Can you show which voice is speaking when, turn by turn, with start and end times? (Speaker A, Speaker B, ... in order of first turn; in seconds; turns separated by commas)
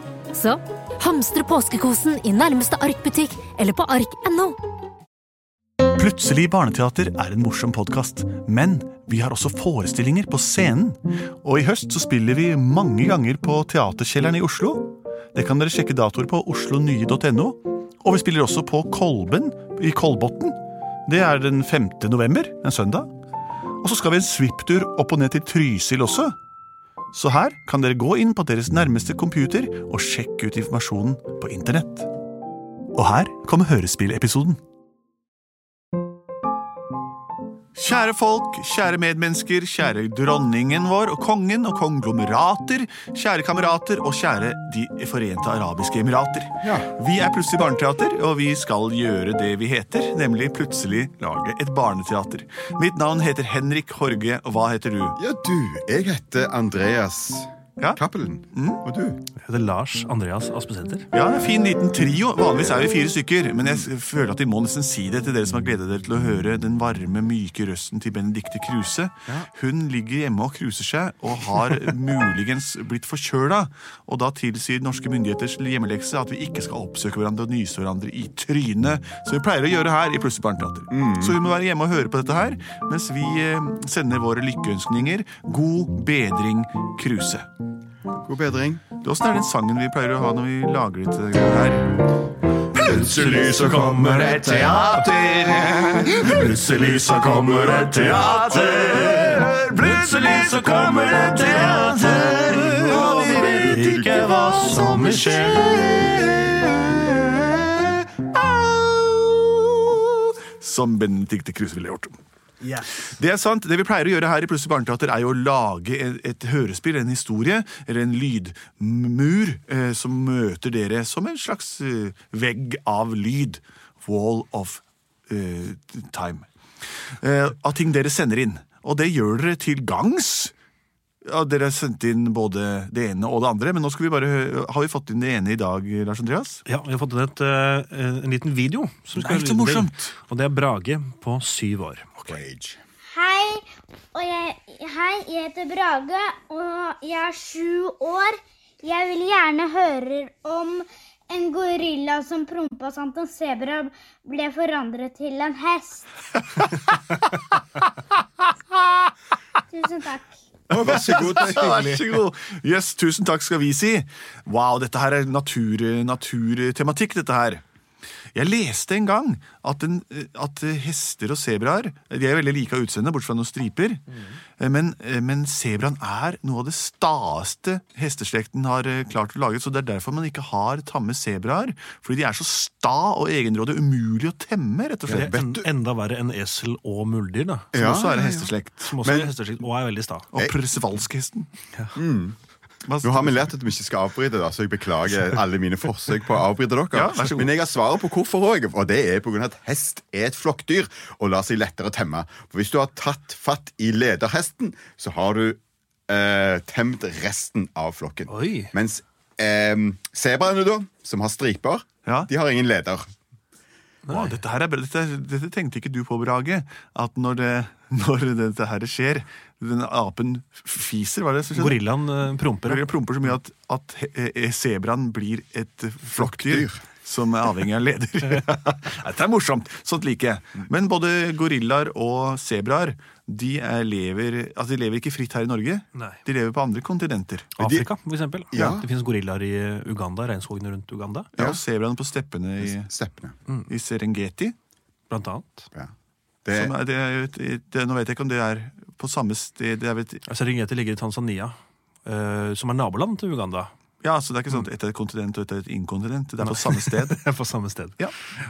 Speaker A: 0.3-4.6, Speaker B: 6.0-23.1, Speaker B: 23.8-26.4, Speaker B: 27.1-32.1, Speaker B: 32.9-34.6, Speaker B: 37.8-55.2, Speaker C: 46.6-46.9, Speaker C: 55.2-59.2, Speaker B: 58.5-58.9, Speaker D: 59.4-61.1, Speaker B: 61.1-87.5, Speaker C: 80.9-81.4, Speaker C: 88.2-88.8, Speaker B: 89.0-92.2, Speaker B: 92.7-112.2, Speaker D: 97.2-97.7, Speaker D: 103.0-105.6, Speaker B: 112.8-126.5, Speaker B: 127.2-130.5, Speaker B: 131.2-136.6, Speaker D: 136.7-142.1, Speaker B: 139.2-140.2, Speaker C: 142.2-142.8, Speaker E: 143.1-143.6, Speaker E: 144.1-156.1, Speaker B: 156.6-157.4, Speaker E: 159.7-160.4, Speaker C: 160.7-162.1, Speaker B: 160.8-167.6, Speaker B: 168.3-174.0, Speaker B: 174.6-185.4, Speaker C: 185.1-185.7, Speaker D: 185.1-187.7, Speaker C: 187.7-189.3, Speaker B: 187.8-189.0, Speaker D: 188.8-190.3, Speaker B: 190.3-191.5, Speaker C: 191.9-192.4, Speaker B: 192.9-193.5, Speaker C: 193.0-213.1, Speaker B: 196.9-197.6, Speaker D: 208.3-208.7, Speaker B: 212.1-212.3, Speaker B: 214.1-221.8, Speaker D: 221.5-222.9, Speaker B: 222.7-237.5, Speaker C: 226.2-226.8, Speaker D: 237.6-241.3, Speaker C: 237.6-237.9, Speaker C: 238.5-238.9, Speaker B: 241.4-242.9, Speaker C: 242.6-243.3, Speaker B: 243.7-244.6, Speaker D: 245.1-245.7, Speaker C: 246.4-246.7, Speaker B: 246.5-250.2, Speaker D: 250.3-253.7, Speaker B: 254.0-257.2, Speaker D: 256.4-258.0